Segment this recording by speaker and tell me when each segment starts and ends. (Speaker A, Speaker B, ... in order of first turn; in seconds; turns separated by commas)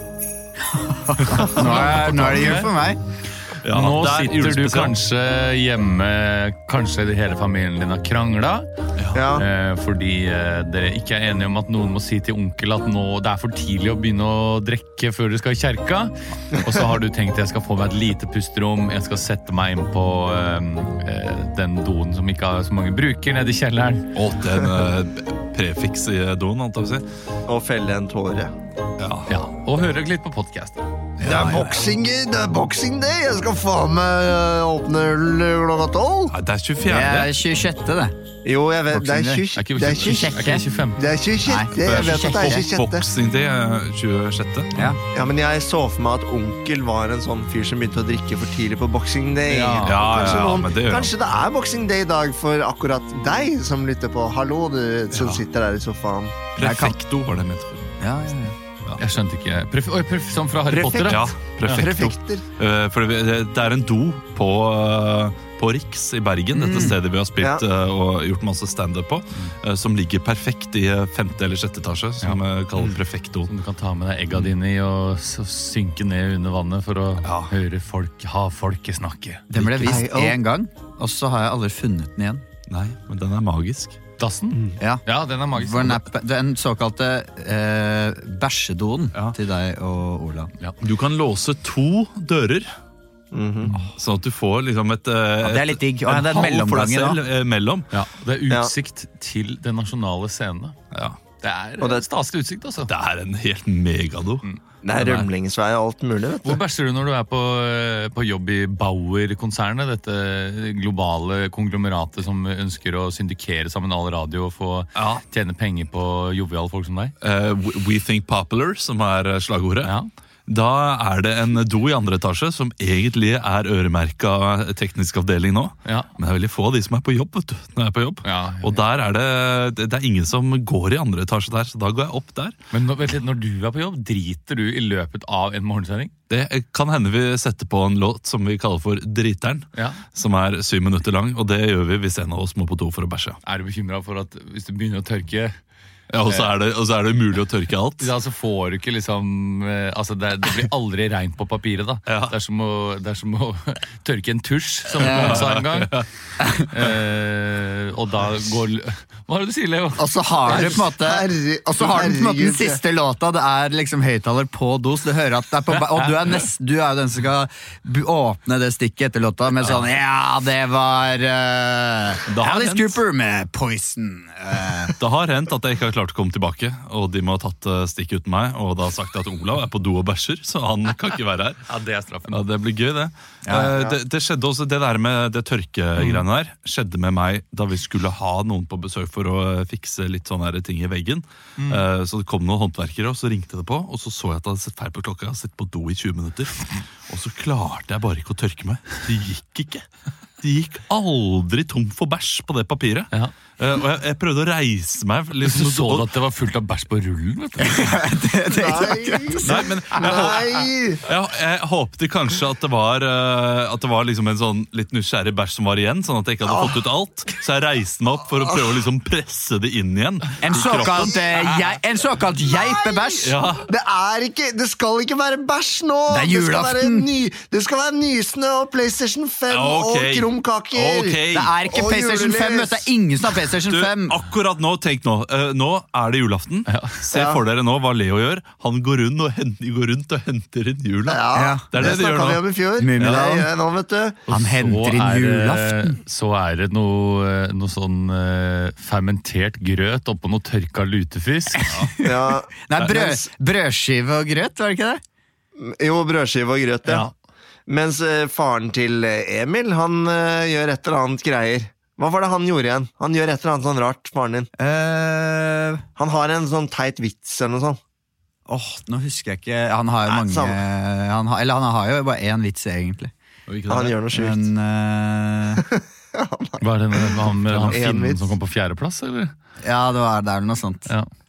Speaker A: 0.6-3.0, Speaker B: 1.3-2.7, Speaker C: 1.4-2.6, Speaker C: 3.6-5.0, Speaker B: 3.7-8.7, Speaker C: 9.0-9.2, Speaker D: 9.1-9.4, Speaker B: 9.3-24.1, Speaker C: 24.1-27.1, Speaker D: 27.5-28.5, Speaker C: 29.0-29.3, Speaker B: 29.3-30.8, Speaker A: 31.2-31.8, Speaker D: 31.2-36.3, Speaker C: 31.3-31.6, Speaker C: 36.3-37.4, Speaker A: 36.9-38.1, Speaker D: 38.4-43.0, Speaker A: 38.9-39.4, Speaker B: 39.5-41.1, Speaker A: 39.9-40.6, Speaker A: 41.4-42.7, Speaker C: 41.8-44.9, Speaker A: 44.7-45.0, Speaker D: 45.1-56.4, Speaker A: 49.5-50.0, Speaker C: 49.8-51.1, Speaker C: 55.1-55.4, Speaker C: 56.5-58.0, Speaker A: 56.6-57.0, Speaker A: 58.0-58.6, Speaker B: 59.0-61.9, Speaker D: 60.7-62.4, Speaker C: 61.1-73.5, Speaker A: 66.5-67.0, Speaker B: 73.5-80.0, Speaker C: 77.2-77.5, Speaker A: 79.5-82.4, Speaker D: 79.6-80.4, Speaker C: 82.7-84.0, Speaker B: 84.2-86.1, Speaker A: 84.8-90.5, Speaker C: 90.8-92.7, Speaker D: 93.3-93.7, Speaker C: 93.9-97.9, Speaker A: 95.4-97.2, Speaker B: 97.9-100.8, Speaker C: 100.9-101.2, Speaker B: 101.4-102.9, Speaker C: 102.9-104.4, Speaker D: 104.8-106.6, Speaker C: 105.0-105.3, Speaker B: 106.4-117.1, Speaker C: 115.0-115.2, Speaker C: 117.2-119.9, Speaker B: 119.8-120.1, Speaker C: 120.5-132.6, Speaker B: 125.8-126.1, Speaker B: 128.2-128.8, Speaker B: 132.7-136.1, Speaker C: 136.3-143.4, Speaker B: 139.7-140.0, Speaker B: 143.4-145.6, Speaker C: 146.1-148.1, Speaker B: 146.2-146.5, Speaker B: 148.0-156.0, Speaker C: 152.1-152.3, Speaker A: 155.0-155.5, Speaker C: 155.0-156.1, Speaker A: 156.4-156.7, Speaker B: 156.7-160.8, Speaker A: 160.0-174.9, Speaker D: 160.5-162.8, Speaker B: 165.7-166.4, Speaker C: 172.3-173.0, Speaker C: 175.0-181.6, Speaker B: 181.7-182.4, Speaker C: 182.3-199.9, Speaker A: 183.4-183.9, Speaker B: 191.6-191.8, Speaker C: 200.4-206.1, Speaker B: 205.4-208.1, Speaker A: 207.6-209.7, Speaker D: 208.4-211.0, Speaker C: 209.4-221.2, Speaker D: 216.5-216.8, Speaker A: 220.4-223.4, Speaker D: 221.2-221.7, Speaker D: 222.5-232.9, Speaker C: 223.2-223.7, Speaker A: 226.1-227.1, Speaker C: 229.5-231.5, Speaker A: 231.3-234.2, Speaker C: 233.7-243.3, Speaker B: 236.7-237.0, Speaker D: 237.1-237.4, Speaker D: 241.1-244.2, Speaker A: 241.3-242.0, Speaker A: 242.8-243.5, Speaker A: 244.3-246.0, Speaker B: 244.3-251.7, Speaker A: 251.6-255.0, Speaker D: 252.0-253.3, Speaker D: 255.6-257.1, Speaker B: 256.9-257.1, Speaker D: 257.7-264.5, Speaker A: 264.6-265.8, Speaker D: 266.0-267.8, Speaker A: 268.5-273.1, Speaker D: 270.1-270.6, Speaker C: 273.5-274.0, Speaker D: 273.7-274.5, Speaker A: 274.1-275.6, Speaker D: 275.6-278.4, Speaker B: 276.6-279.3, Speaker A: 279.6-280.9